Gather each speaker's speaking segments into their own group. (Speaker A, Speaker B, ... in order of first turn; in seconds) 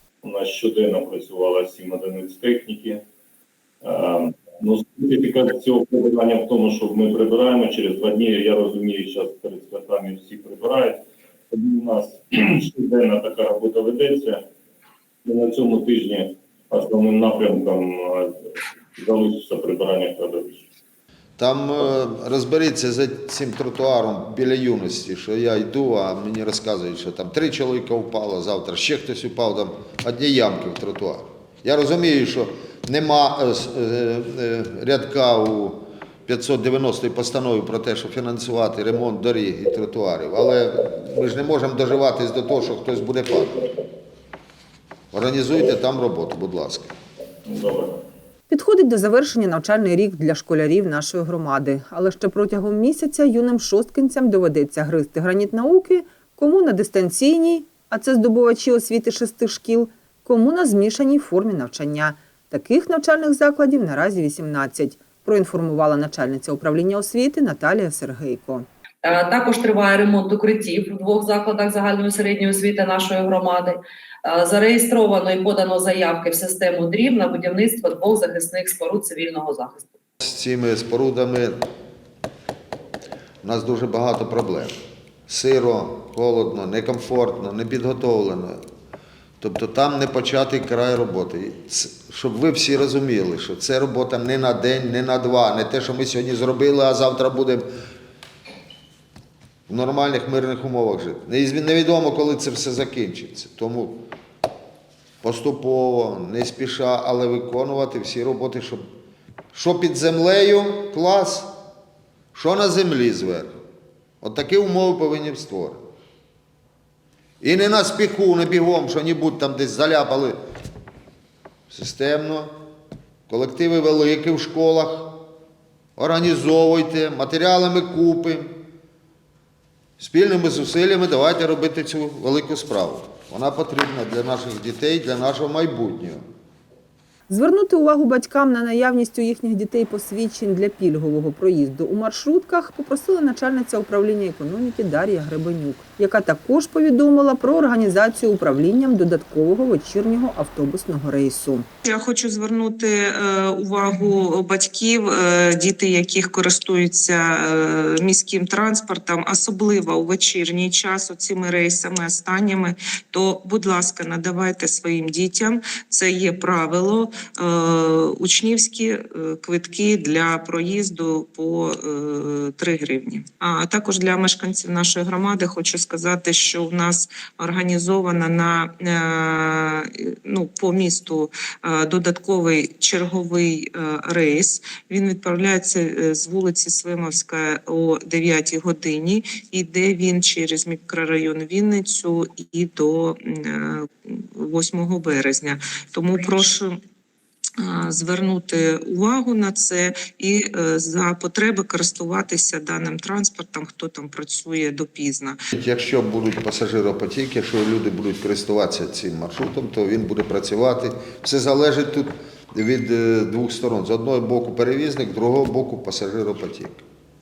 Speaker A: 0.2-3.0, 3.8-11.0, 11.5-14.4, 15.2-18.4, 19.0-20.7, 47.5-48.0
Speaker B: 21.4-43.6, 45.1-46.9, 80.2-81.6, 83.4-84.7, 85.3-88.6, 89.4-97.7, 99.7-104.1, 105.2-108.8, 109.5-111.5, 112.3-113.5, 114.2-115.8, 117.4-120.4, 121.7-122.5, 123.3-125.2, 126.0-128.6, 130.0-136.2, 205.5-216.8
Speaker C: 48.5-68.7, 137.3-151.7
Speaker D: 69.0-79.9
Speaker E: 151.9-196.7, 197.6-205.4